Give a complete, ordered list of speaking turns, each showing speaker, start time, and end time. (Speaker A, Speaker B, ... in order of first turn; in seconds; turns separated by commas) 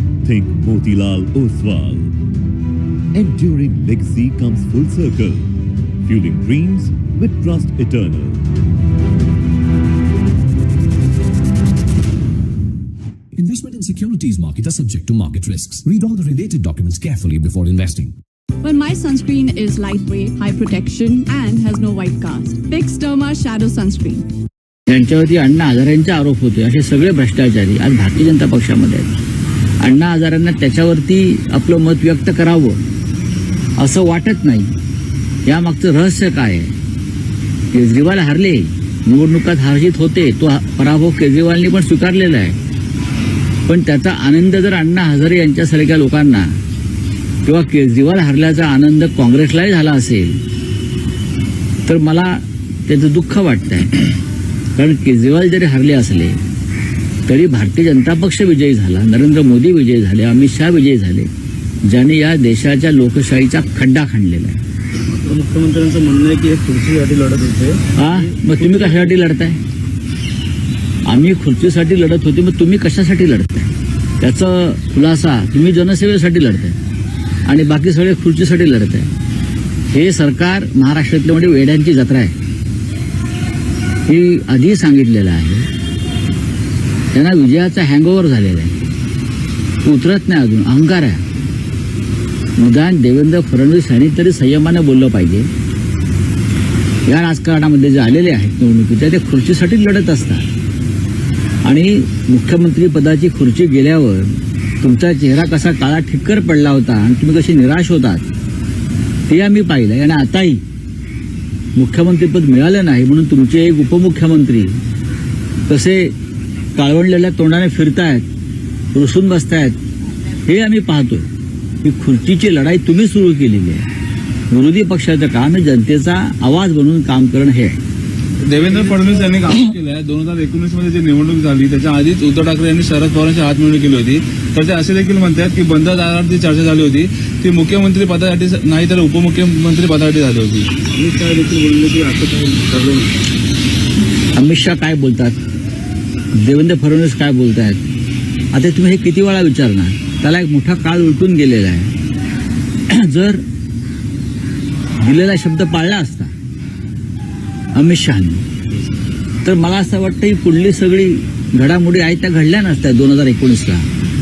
Speaker A: 0.2-2.1, Speaker A: 3.1-5.5, Speaker A: 6.0-8.4, Speaker B: 13.4-18.1, Speaker C: 18.6-24.3, Speaker D: 24.9-29.1, Speaker D: 29.8-32.8, Speaker D: 33.8-34.7, Speaker D: 35.5-36.8, Speaker D: 37.7-42.6, Speaker D: 43.7-46.5, Speaker D: 47.4-50.4, Speaker D: 51.9-54.1, Speaker D: 54.8-56.4, Speaker D: 57.3-61.3, Speaker D: 61.9-64.6, Speaker E: 65.2-68.8, Speaker D: 68.0-69.6, Speaker D: 71.1-76.8, Speaker D: 77.5-79.1, Speaker D: 79.9-82.3, Speaker D: 84.1-85.7, Speaker D: 87.1-88.9, Speaker D: 89.8-91.2, Speaker D: 92.6-95.5, Speaker D: 97.1-100.5, Speaker D: 101.7-108.2, Speaker D: 109.3-110.6, Speaker D: 111.8-114.8, Speaker D: 115.7-116.1, Speaker D: 116.8-118.2, Speaker D: 118.9-119.8, Speaker D: 120.5-121.3, Speaker D: 121.8-123.9, Speaker D: 124.5-127.8, Speaker F: 128.4-140.7, Speaker E: 140.9-143.1, Speaker D: 144.3-145.4, Speaker D: 146.4-147.8, Speaker D: 148.5-151.9, Speaker D: 152.9-153.4, Speaker D: 155.0-156.3, Speaker D: 157.8-158.4, Speaker D: 159.4-163.9